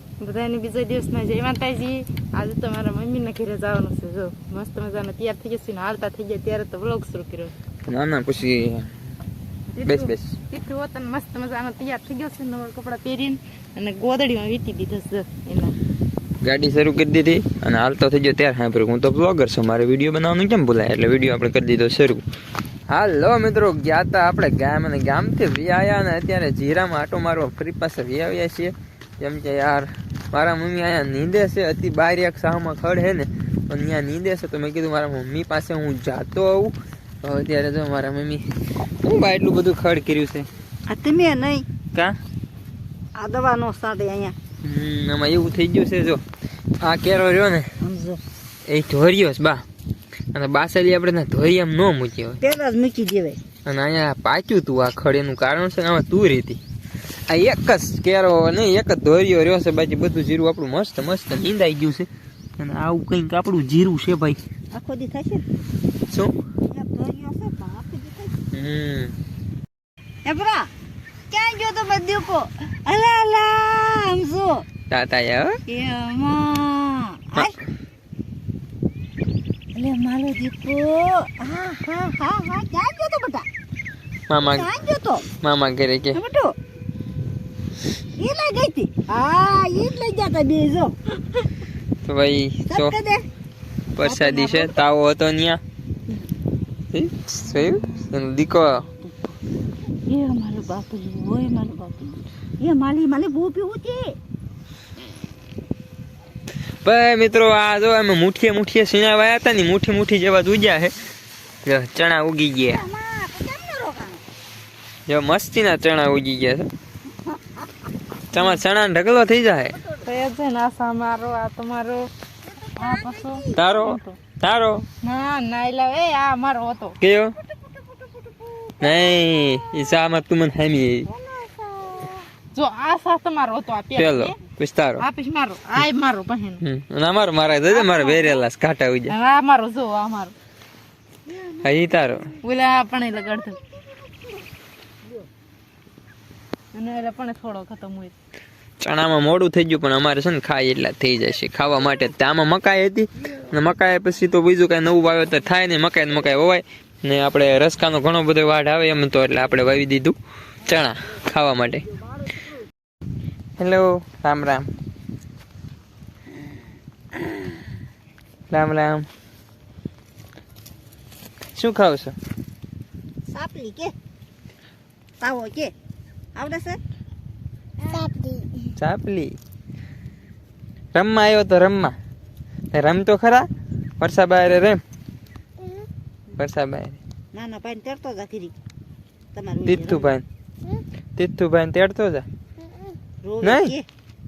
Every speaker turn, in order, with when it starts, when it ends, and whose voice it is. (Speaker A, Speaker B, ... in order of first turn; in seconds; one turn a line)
Speaker A: 0.2-7.5
Speaker B: 7.8-8.9
Speaker A: 9.7-15.8
Speaker B: 9.8-10.4
Speaker B: 16.4-22.2
Speaker B: 22.9-40.5
Speaker C: 40.9-41.6
Speaker C: 43.1-44.3
Speaker B: 44.6-46.2
Speaker B: 46.8-47.7
Speaker C: 47.8-48.2
Speaker B: 48.7-49.6
Speaker B: 50.3-52.4
Speaker C: 52.4-53.4
Speaker B: 53.6-56.6
Speaker B: 57.3-64.4
Speaker C: 64.7-65.4
Speaker B: 66.1-66.3
Speaker C: 66.7-68.3
Speaker B: 68.5-69.2
Speaker C: 70.2-70.7
Speaker C: 71.3-74.6
Speaker B: 74.9-75.6
Speaker C: 75.7-77.5
Speaker C: 79.7-83.5
Speaker B: 84.3-84.7
Speaker C: 84.5-85.2
Speaker B: 85.4-86.2
Speaker C: 86.1-86.5
Speaker C: 88.2-90.9
Speaker B: 92.0-92.9
Speaker C: 92.7-93.2
Speaker B: 93.9-95.6
Speaker C: 94.0-94.8
Speaker B: 96.9-98.8
Speaker C: 98.9-99.4
Speaker C: 100.0-104.2
Speaker B: 106.8-110.9
Speaker B: 111.6-112.8
Speaker C: 112.7-114.2
Speaker B: 115.1-116.7
Speaker C: 117.2-117.6
Speaker B: 118.3-119.8
Speaker A: 120.0-122.1
Speaker C: 122.4-123.6
Speaker A: 122.8-124.2
Speaker B: 123.5-124.8
Speaker A: 125.0-127.0
Speaker B: 127.0-127.3
Speaker C: 127.4-129.6
Speaker B: 128.8-131.1
Speaker C: 131.1-132.2
Speaker A: 132.5-134.3
Speaker B: 133.9-135.0
Speaker A: 135.0-136.6
Speaker B: 136.6-139.1
Speaker A: 137.7-138.3
Speaker A: 139.1-140.3
Speaker C: 141.3-141.6
Speaker B: 141.6-142.3
Speaker A: 142.4-143.6
Speaker C: 143.2-144.4
Speaker A: 146.7-148.1
Speaker B: 148.8-161.9
Speaker B: 163.6-164.7
Speaker C: 167.2-167.4
Speaker B: 168.5-169.1
Speaker B: 171.5-172.2
Speaker C: 173.3-173.9
Speaker C: 175.2-175.7
Speaker C: 176.3-176.8
Speaker C: 177.9-178.4
Speaker B: 178.8-179.3
Speaker B: 180.9-181.9
Speaker B: 182.7-183.5
Speaker B: 184.0-184.8
Speaker B: 186.3-187.0
Speaker C: 187.3-188.5
Speaker C: 189.3-190.1
Speaker B: 189.6-190.2
Speaker B: 191.2-192.2
Speaker C: 193.2-193.8
Speaker B: 193.4-193.7